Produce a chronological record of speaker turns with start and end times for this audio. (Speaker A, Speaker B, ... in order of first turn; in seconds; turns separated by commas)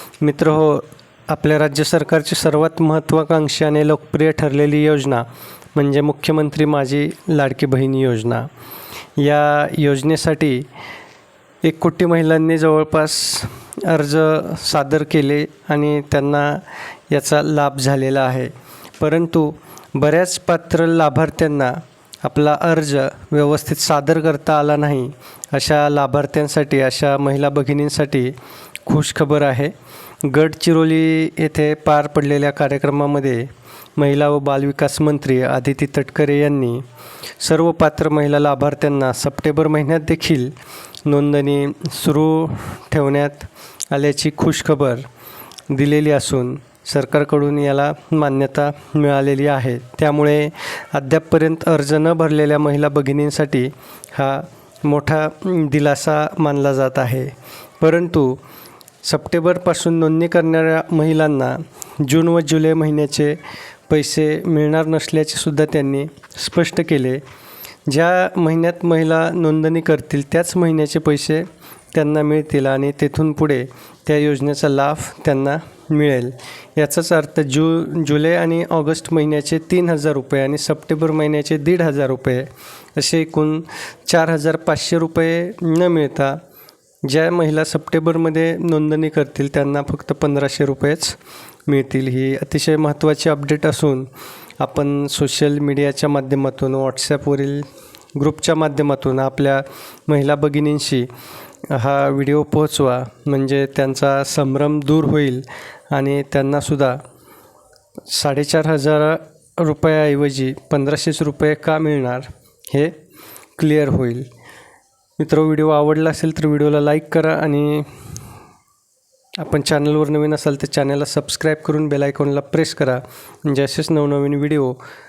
Speaker A: 0.2-8.5, Speaker A: 9.2-10.7, Speaker A: 11.6-28.4, Speaker A: 28.9-36.8, Speaker A: 37.4-40.5, Speaker A: 41.1-45.1, Speaker A: 45.7-58.4, Speaker A: 59.0-63.4, Speaker A: 63.9-67.2, Speaker A: 67.9-86.4, Speaker A: 87.0-94.1, Speaker A: 94.6-97.7, Speaker A: 98.2-101.1, Speaker A: 101.7-107.0, Speaker A: 108.1-113.0, Speaker A: 113.6-114.3, Speaker A: 115.2-117.9, Speaker A: 119.4-124.8